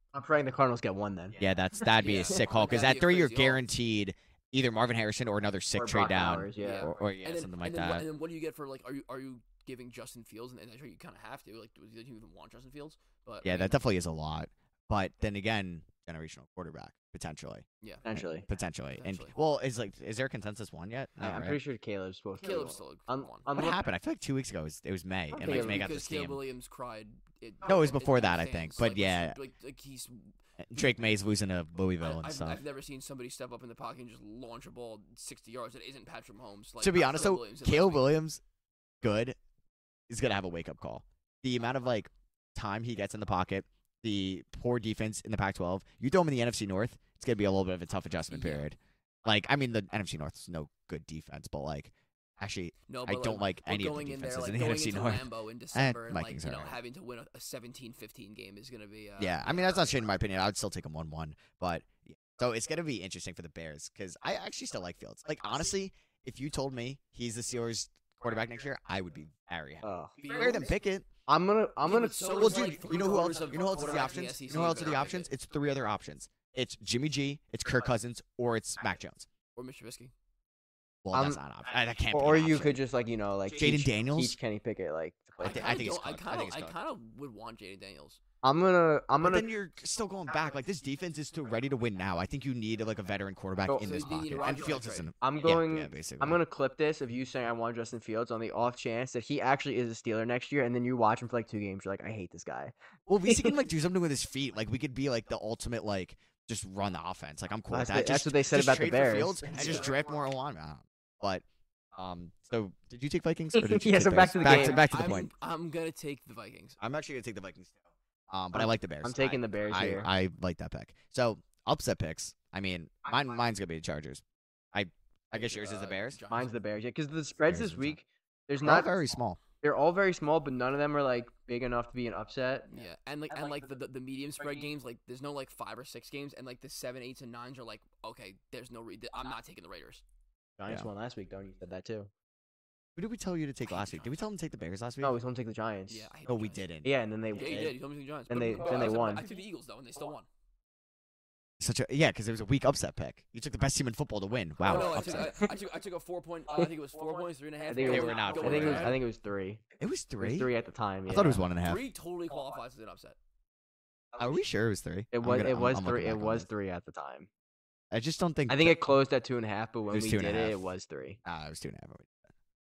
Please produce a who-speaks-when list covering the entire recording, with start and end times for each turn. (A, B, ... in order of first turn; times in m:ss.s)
0:00.1-0:01.4 A
0:01.4-0:08.0 B
0:01.9-0:03.6 C
0:05.7-0:06.9 A
0:06.6-0:13.8 C
0:13.4-0:21.6 B
0:18.0-0:18.4 A
0:19.0-0:19.3 C
0:21.2-0:23.8 A
0:22.4-0:23.5 C
0:23.5-0:26.4 B
0:25.3-0:25.9 A
0:25.4-0:31.0 C
0:27.6-0:29.4 B
0:30.6-0:32.6 B
0:32.0-0:38.1 C
0:36.8-0:38.4 B
0:39.0-0:39.4 B
0:40.1-0:56.8 B
0:48.3-0:48.7 C
0:52.9-1:00.1 C
0:59.2-1:11.0 B
1:09.8-1:10.2 A
1:10.2-1:10.7 C
1:11.3-1:12.9 A
1:11.8-1:15.3 C
1:12.4-1:19.3 B
1:19.6-1:20.1 C
1:21.0-1:22.8 B
1:21.1-1:21.4 A
1:22.1-1:25.9 A
1:23.6-1:24.4 B
1:25.4-1:26.7 B
1:25.4-1:28.2 C
1:28.4-1:29.4 A
1:29.2-1:36.4 B
1:33.6-1:34.0 A
1:33.8-1:35.1 C
1:35.2-1:42.7 A
1:43.1-1:55.3 B
1:43.2-1:43.6 A
1:47.7-1:49.9 A
1:49.5-1:49.9 C
1:53.5-1:54.8 A
1:54.4-1:56.8 C
1:56.8-1:57.7 B
1:58.3-2:04.2 B
1:58.5-2:00.1 A
2:04.7-2:06.2 B
2:05.3-2:06.5 C
2:06.3-2:08.9 A
2:07.5-2:08.0 B
2:08.6-2:09.4 B
2:09.6-2:12.7 A
2:12.7-2:20.0 C
2:20.6-2:22.1 A
2:23.0-2:25.1 B
2:23.6-2:24.1 C
2:25.0-2:26.1 A
2:25.9-2:26.6 C
2:26.2-2:27.7 B
2:26.8-2:27.7 A
2:27.3-2:30.2 C
2:28.3-2:29.2 A
2:31.6-2:35.4 B
2:34.6-2:39.0 C
2:34.6-2:35.5 A
2:37.7-2:39.6 A
2:37.8-2:39.0 B
2:39.8-2:40.5 B
2:40.2-2:41.4 A
2:41.1-2:41.8 B
2:41.6-2:43.2 C
2:44.2-2:46.5 B
2:45.1-2:47.3 A
2:47.9-2:48.8 B
2:48.5-2:51.2 A
2:49.9-2:50.7 B
2:51.2-2:52.2 B